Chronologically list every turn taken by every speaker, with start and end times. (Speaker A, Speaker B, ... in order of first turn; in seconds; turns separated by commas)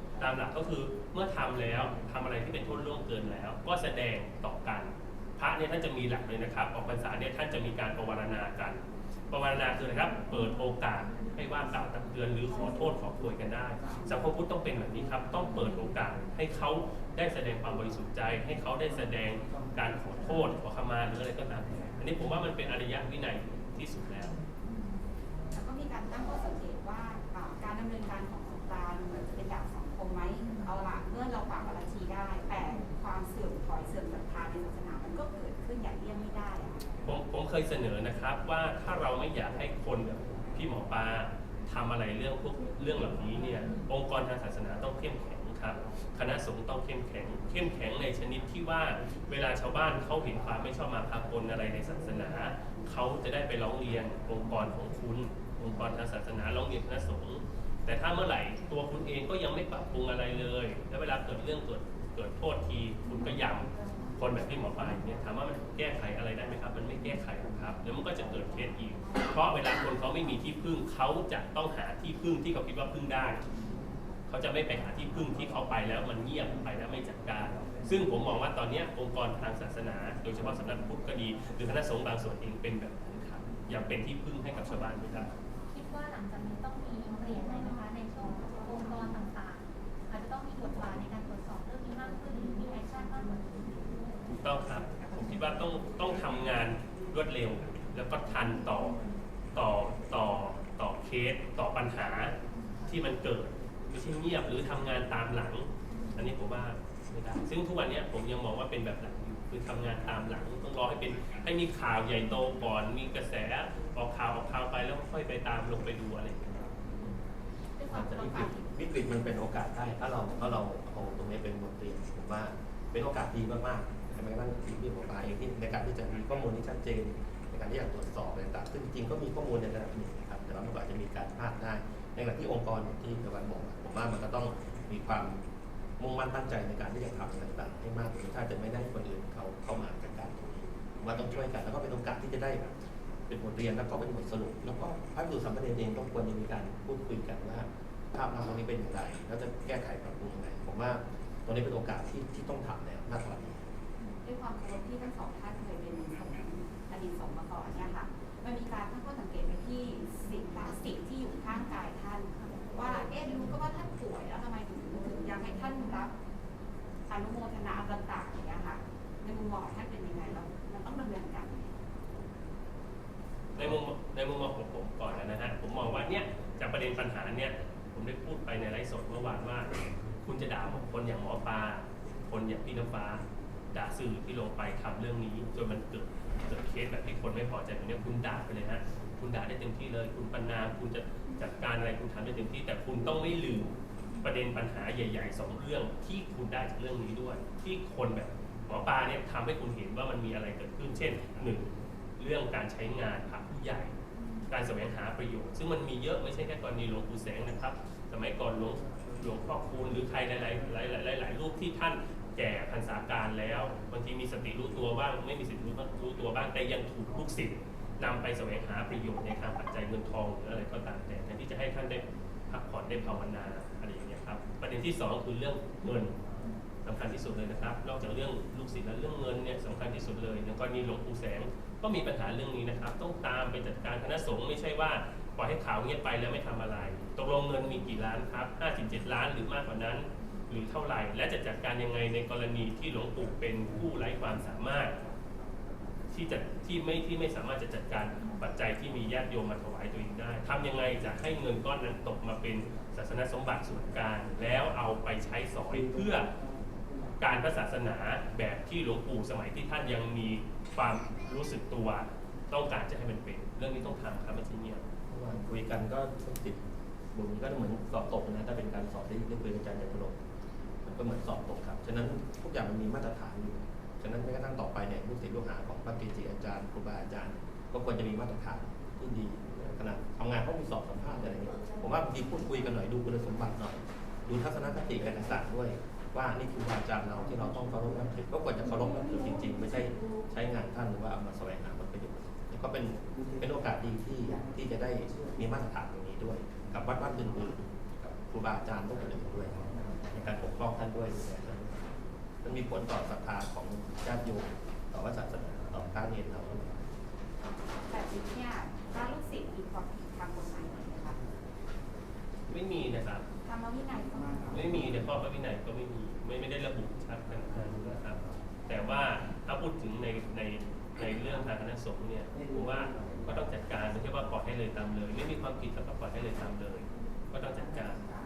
Speaker A: 0.2-24.4, Speaker B: 24.7-25.0, Speaker C: 25.5-36.7, Speaker B: 30.4-30.7, Speaker A: 37.0-73.4, Speaker A: 74.3-85.3, Speaker B: 85.7-93.8, Speaker A: 94.3-99.0, Speaker A: 99.5-102.3, Speaker A: 102.9-116.6, Speaker B: 105.9-106.2, Speaker C: 117.8-118.7, Speaker D: 117.9-135.4, Speaker D: 136.0-142.7, Speaker D: 143.3-153.6, Speaker C: 154.2-166.1, Speaker C: 167.1-171.8, Speaker A: 173.6-183.2, Speaker A: 183.7-193.7, Speaker A: 194.2-201.7, Speaker A: 202.2-203.9, Speaker B: 204.2-204.5, Speaker A: 204.5-226.2, Speaker A: 226.8-244.9, Speaker A: 246.1-256.3, Speaker A: 257.2-264.8, Speaker D: 265.1-266.6, Speaker D: 267.1-270.1, Speaker D: 270.8-301.9, Speaker D: 302.4-306.8, Speaker C: 307.4-311.2, Speaker A: 312.5-313.2, Speaker C: 313.4-314.6, Speaker A: 314.5-328.0